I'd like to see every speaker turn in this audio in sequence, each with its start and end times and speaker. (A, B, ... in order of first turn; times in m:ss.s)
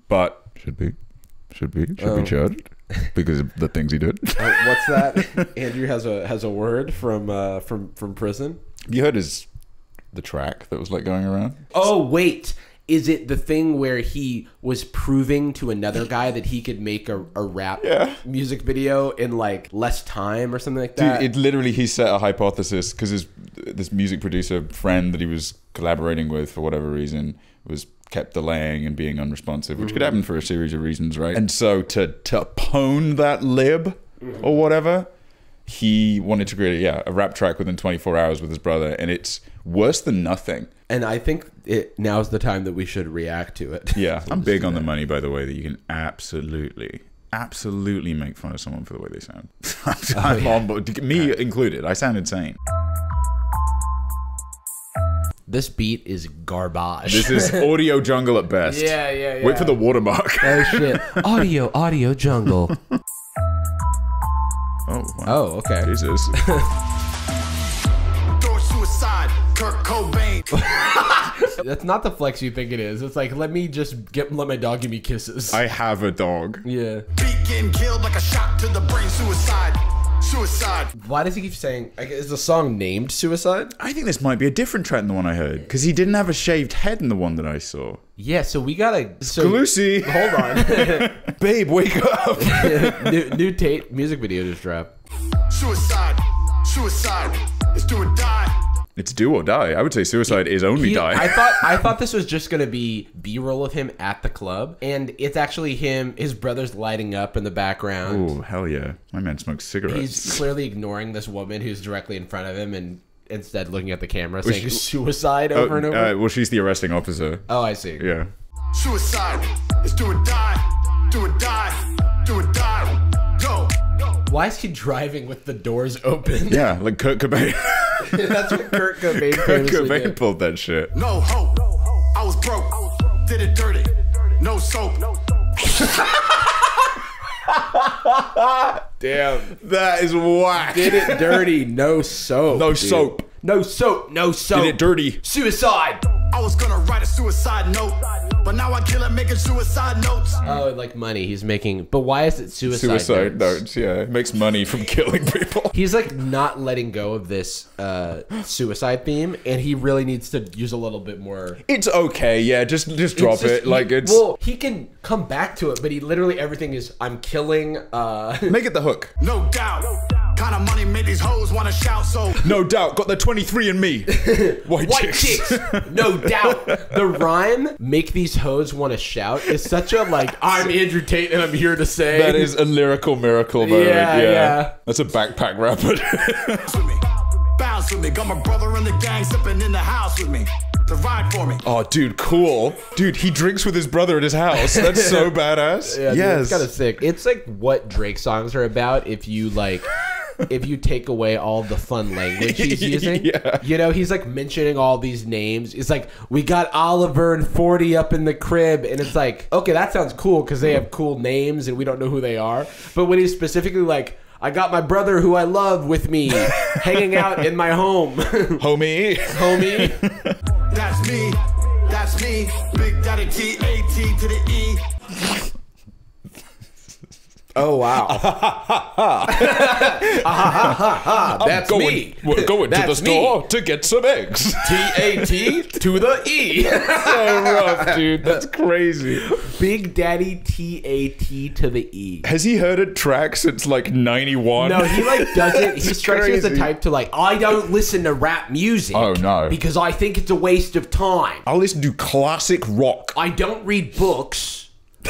0:00.1-0:01.0 A
0:01.5-0:05.4 A
0:02.0-0:02.4 B
0:04.4-0:08.6 B
0:08.9-0:09.5 A
0:10.1-0:11.7 A
0:11.7-0:21.3 B
0:17.8-0:18.2 A
0:21.0-0:35.1 A
0:29.8-0:30.2 B
0:35.6-0:40.7 A
0:40.9-0:44.9 B
0:43.9-0:52.6 A
0:50.1-0:50.6 B
0:55.5-0:57.7 B
0:57.0-1:01.4 A
0:58.7-0:59.8 B
1:00.4-1:02.8 B
1:04.9-1:06.4 A
1:05.2-1:06.7 B
1:08.4-1:10.6 C
1:10.6-1:15.6 B
1:15.5-1:16.6 A
1:16.6-1:17.0 B
1:17.1-1:20.9 C
1:21.0-1:23.7 B
1:23.8-1:28.0 A
1:28.2-1:31.1 B
1:29.2-1:33.4 A
1:32.4-1:34.9 B
1:35.5-1:38.6 C
1:39.0-1:41.7 A
1:40.3-1:48.3 B
1:48.0-1:50.5 A
1:49.9-1:56.1 B
1:54.4-1:54.9 A
1:55.5-1:58.3 A
1:57.5-1:58.0 B
1:58.7-2:03.8 C
2:04.2-2:06.7 B
2:06.5-2:10.9 A
2:08.0-2:10.2 B
2:10.9-2:15.1 C
2:15.7-2:16.8 B
2:17.8-2:18.6 A
2:19.0-2:19.6 B
2:19.6-2:21.4 A
2:20.5-2:26.0 B
2:22.5-2:23.2 A
2:24.5-2:25.2 A
2:26.3-2:30.5 C
2:30.4-2:33.6 B
2:32.6-2:35.7 A
2:35.7-2:41.6 B
2:41.6-2:44.2 A
2:43.1-2:48.6 B
2:48.4-2:49.1 A
2:49.2-2:52.4 C
2:52.4-2:57.0 A
2:54.1-3:02.5 B
3:02.1-3:06.8 A
3:03.6-3:04.7 B
3:06.7-3:07.0 C
3:07.5-3:11.6 C
3:11.6-3:16.7 A
3:14.5-3:15.3 B
3:15.8-3:19.9 B
3:20.4-3:38.6 B
3:22.4-3:23.6 A
3:36.4-3:37.4 A
3:38.6-3:40.3 A
3:39.3-3:40.0 B
3:40.7-3:44.8 C
3:47.5-3:48.3 B
3:47.9-3:55.7 A
3:49.3-3:53.4 B
3:54.6-3:58.4 B
3:56.7-3:59.3 A
3:59.2-4:02.3 B
4:02.2-4:06.7 A
4:04.6-4:11.4 B
4:08.9-4:09.6 A
4:11.4-4:13.2 A
4:13.1-4:14.7 B